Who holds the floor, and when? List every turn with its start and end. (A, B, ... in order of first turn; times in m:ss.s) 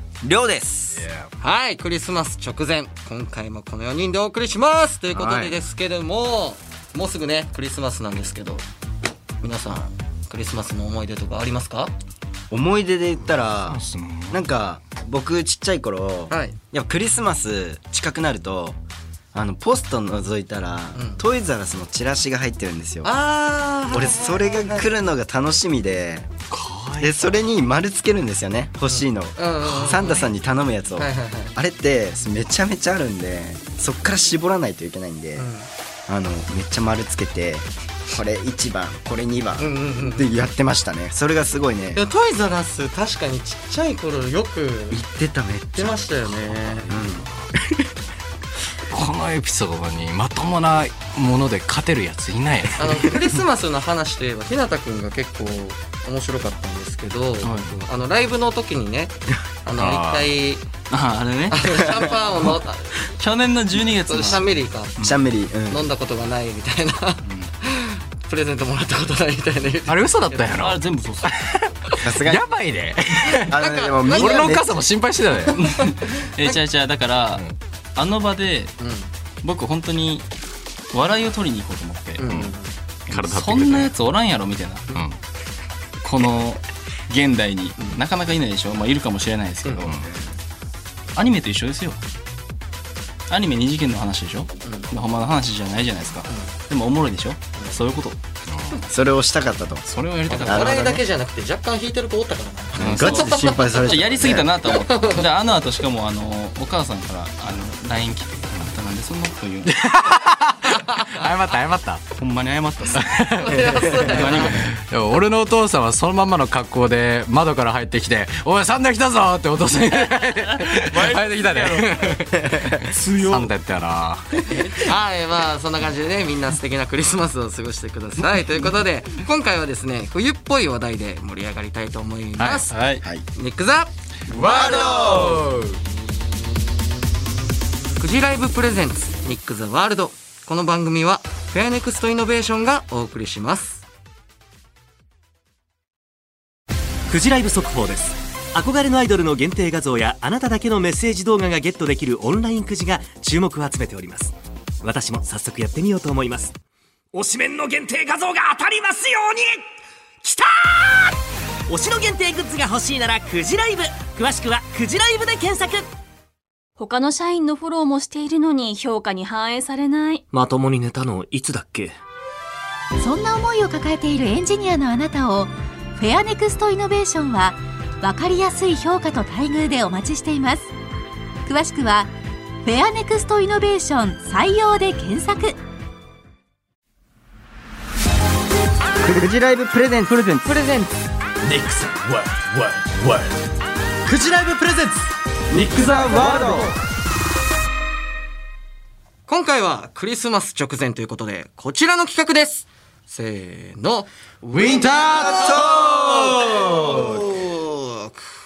0:00.2-0:01.0 A
0:00.9-0:01.2 B
0:01.4-0:08.6 C
0:05.1-0:05.5 B
0:09.4-0:11.9 C
0:12.5-0:18.8 A
0:13.7-0:14.4 B
0:16.3-0:16.6 C
0:19.3-0:23.1 A
0:20.9-0:21.2 C
0:23.0-0:24.8 C
0:23.9-0:26.3 A
0:26.8-0:27.2 D
0:27.0-0:35.5 A
0:28.8-0:30.3 C
0:31.0-0:31.5 C
0:35.4-0:35.7 C
0:36.1-0:42.0 A
0:39.6-0:40.3 C
0:41.9-0:45.0 C
0:44.9-0:46.1 A
0:45.7-0:46.9 C
0:46.9-0:47.8 A
0:48.9-0:53.2 B
0:52.8-1:00.6 C
0:57.4-0:57.8 D
0:59.8-1:00.4 B
1:00.9-1:02.6 D
1:01.5-1:03.1 C
1:03.2-1:05.2 D
1:03.9-1:04.9 C
1:05.0-1:05.8 A
1:05.7-1:10.6 C
1:07.2-1:07.5 D
1:09.9-1:11.5 B
1:10.6-1:11.3 D
1:12.0-1:12.4 A
1:12.1-1:13.5 B
1:13.5-1:14.8 A
1:13.5-1:14.6 C
1:14.1-1:15.6 B
1:15.5-1:18.7 D
1:15.8-1:16.6 C
1:18.8-1:19.1 C
1:19.4-1:20.2 D
1:20.9-1:22.4 D
1:22.2-1:22.7 C
1:23.1-1:25.0 D
1:23.1-1:23.9 B
1:26.0-1:29.9 D
1:31.1-1:32.0 D
1:33.3-1:38.2 D
1:34.6-1:34.9 C
1:36.3-1:36.5 C
1:38.5-1:38.8 B
1:38.9-1:41.0 A
1:39.8-1:40.7 D
1:40.3-1:43.6 C
1:42.8-1:44.5 A
1:42.8-1:49.7 D
1:44.7-1:45.2 C
1:49.7-1:52.0 B
1:50.7-1:51.2 C
1:52.2-1:53.0 D
1:53.0-1:53.6 B
1:53.4-1:54.6 C
1:54.0-1:54.7 D
1:54.5-2:04.4 B
2:01.0-2:02.2 C
2:02.9-2:03.5 D
2:04.5-2:12.7 C
2:12.4-2:12.6 B
2:12.7-2:13.0 D
2:13.3-2:13.9 C
2:14.3-2:15.8 B
2:14.3-2:15.4 A
2:18.0-2:23.8 C
2:27.1-2:36.5 E
2:37.1-2:39.6 E
2:40.2-2:41.2 E
2:41.7-2:45.9 E
2:46.8-2:50.2 F
2:50.3-2:52.0 E
2:53.0-3:00.7 G
3:01.4-3:02.1 G
3:02.6-3:05.6 G
3:09.0-3:10.4 A
3:10.1-3:11.0 C
3:11.7-3:11.9 A
3:14.1-3:14.8 A
3:15.5-3:16.7 A
3:19.2-3:24.1 C
3:24.5-3:27.5 A
3:24.6-3:26.6 B
3:25.4-3:28.2 C